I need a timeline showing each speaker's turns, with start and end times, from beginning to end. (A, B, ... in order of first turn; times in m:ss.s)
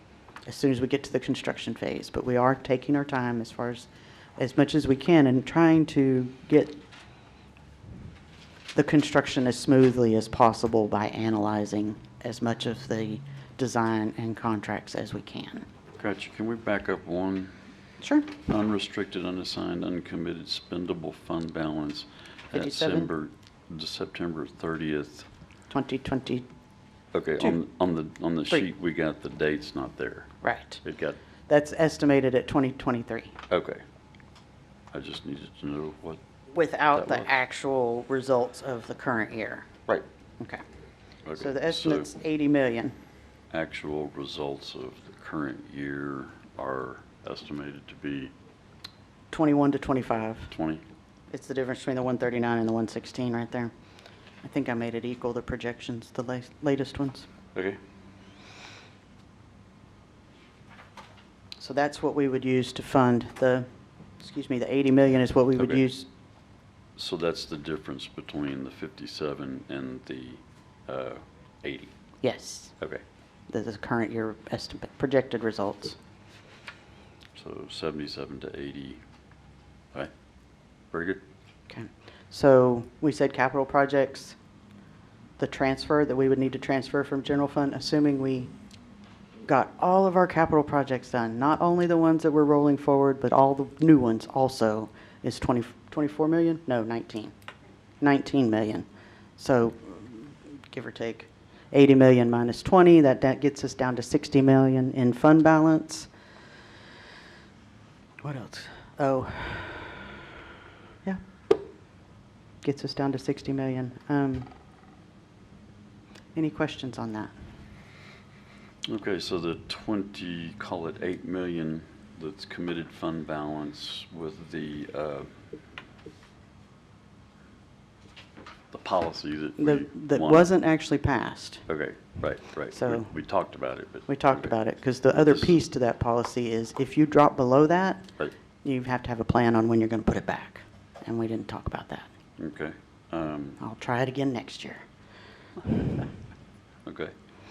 0:00.4-0:06.8 A
0:08.7-0:15.6 A
0:16.0-0:17.6 B
0:18.0-0:18.3 A
0:18.4-0:25.3 B
0:22.5-0:23.1 A
0:25.7-0:26.5 A
0:27.1-0:31.2 B
0:30.4-0:30.8 A
0:31.5-0:33.4 A
0:33.5-0:33.8 B
0:34.9-0:36.2 B
0:36.5-0:39.7 A
0:36.9-0:37.4 B
0:41.2-0:42.1 B
0:41.3-0:43.0 A
0:43.5-0:48.3 B
0:49.3-0:50.5 A
0:50.5-0:50.8 B
0:51.3-0:53.7 A
0:54.4-0:57.3 A
1:01.6-1:03.7 A
1:04.2-1:06.1 A
1:05.5-1:05.8 B
1:07.0-1:11.9 B
1:12.2-1:12.8 A
1:13.5-1:16.0 A
1:17.3-1:19.0 B
1:20.9-1:21.2 B
1:21.7-1:24.4 A
1:25.4-1:28.5 A
1:29.4-1:37.3 A
1:38.0-1:46.1 A
1:48.2-1:50.1 A
1:52.6-1:54.5 A
1:56.3-1:57.3 A
1:58.9-2:05.3 B
2:08.7-2:10.5 B
2:09.6-2:11.6 A
2:11.7-2:14.5 B
2:12.7-2:13.1 A
2:14.1-2:18.1 A
2:15.1-2:15.6 B
2:18.6-2:22.1 A
2:22.4-2:23.6 B
2:23.6-2:24.8 A
2:26.8-2:27.1 B